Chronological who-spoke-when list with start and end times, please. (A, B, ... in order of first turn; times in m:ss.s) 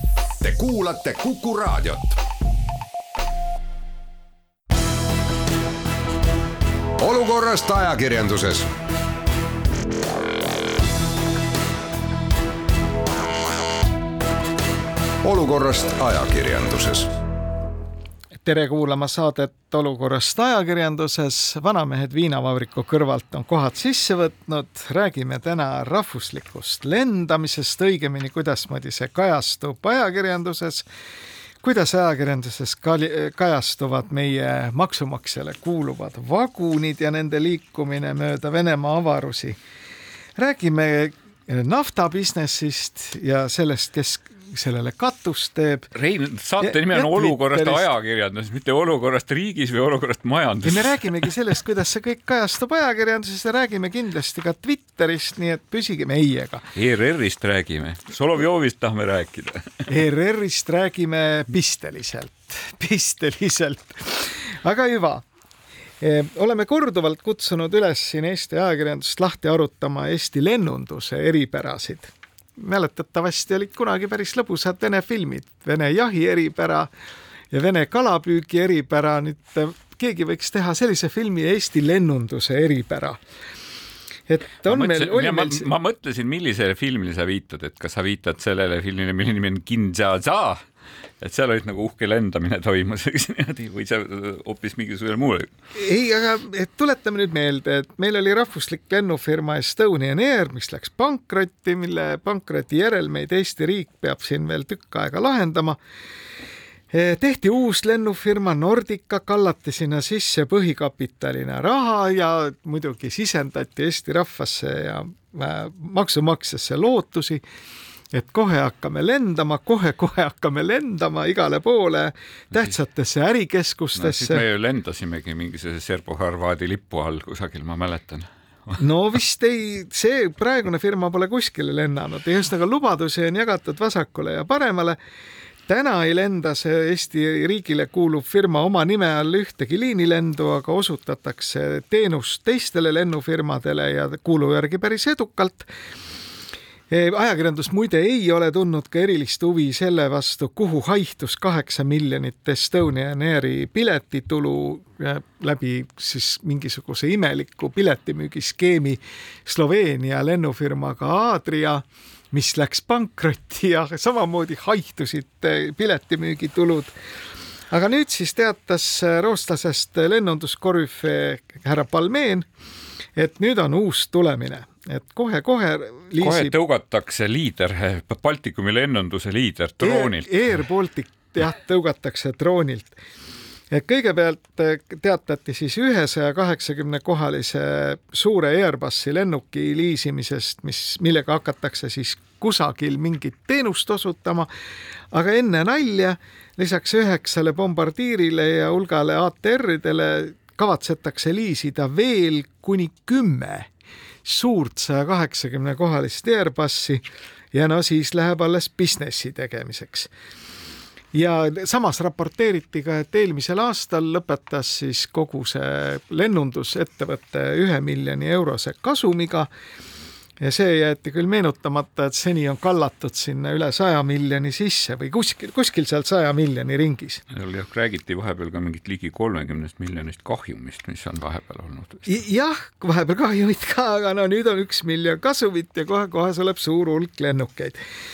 0:00.4-0:02.2 A
0:07.0-0:08.7 A
0:15.2-0:17.1 A
0:18.4-0:30.8 B
0:31.6-0:39.6 B
0:40.4-0:45.9 B
0:45.9-0:51.2 C
0:46.6-0:47.9 B
0:50.6-0:56.7 B
0:56.7-0:59.9 C
0:59.9-1:05.2 B
1:06.0-1:16.9 B
1:17.5-1:23.2 B
1:24.3-1:25.7 B
1:24.6-1:30.6 C
1:31.2-1:35.5 C
1:35.7-1:45.8 B
1:46.9-1:57.4 B
1:58.1-2:04.4 B
2:04.0-2:08.8 C
2:08.8-2:15.0 B
2:15.7-2:25.7 B
2:26.9-2:46.9 B
2:47.7-2:52.4 B
2:53.2-2:56.6 B
2:56.2-3:00.3 C
2:59.8-3:02.9 B
3:03.7-3:14.5 B
3:15.1-3:23.7 B
3:24.2-3:27.0 B
3:27.5-3:30.1 B
3:31.1-3:39.5 B
3:40.4-3:47.2 B
3:47.3-3:52.1 C
3:52.0-3:57.8 B